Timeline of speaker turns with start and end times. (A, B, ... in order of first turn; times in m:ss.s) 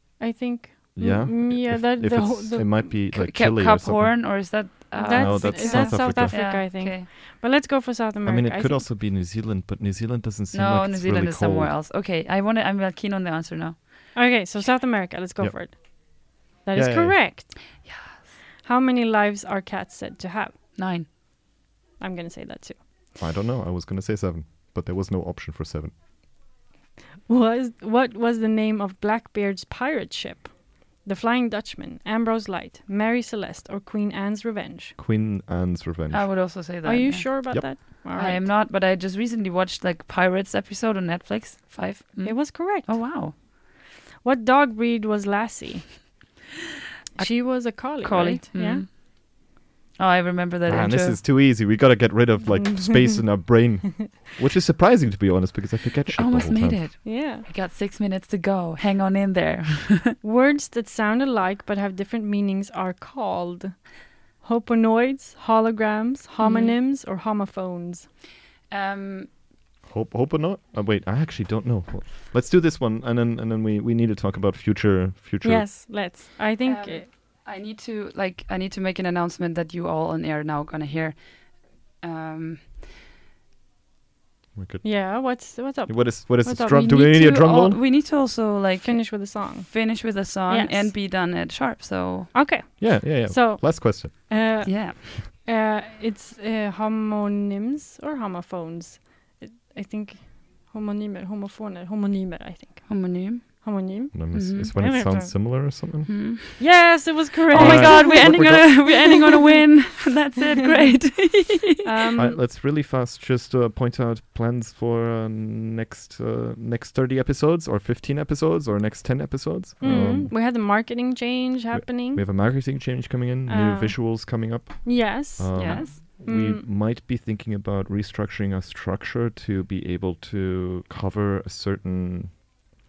0:00.2-0:03.0 A
0:01.0-0:06.4 B
0:03.1-0:07.1 C
0:05.0-0:08.9 A
0:08.2-0:11.7 B
0:10.5-0:14.1 C
0:14.1-0:17.8 A
0:16.1-0:17.3 B
0:17.8-0:18.2 C
0:18.6-0:20.6 A
0:20.8-0:21.1 C
0:22.0-0:22.8 A
0:23.2-0:25.9 B
0:27.3-0:35.0 A
0:35.0-0:36.5 B
0:36.1-0:43.4 C
0:36.8-0:38.5 A
0:42.2-0:43.4 A
0:44.2-0:46.1 A
0:47.2-0:48.9 A
0:47.2-0:49.0 C
0:50.0-0:51.2 C
0:50.7-0:56.9 B
0:52.6-0:53.2 A
0:56.1-1:00.2 C
0:57.0-0:57.4 A
1:00.2-1:08.1 A
1:06.4-1:06.8 C
1:08.7-1:09.3 C
1:09.9-1:15.7 B
1:15.4-1:17.1 A
1:16.6-1:22.7 C
1:24.6-1:27.8 B
1:24.8-1:27.5 A
1:27.1-1:32.3 C
1:28.8-1:30.9 A
1:32.3-1:45.7 A
1:32.8-1:34.7 B
1:34.6-1:35.0 C
1:42.9-1:45.2 C
1:44.1-1:46.6 B
1:46.1-1:46.8 C
1:46.6-1:49.6 A
1:47.5-1:49.1 B
1:47.5-1:51.8 C
1:50.9-1:52.4 A
1:52.2-2:00.3 B
1:59.8-2:02.7 A
2:01.7-2:12.5 B
2:03.5-2:06.6 A
2:05.6-2:06.0 C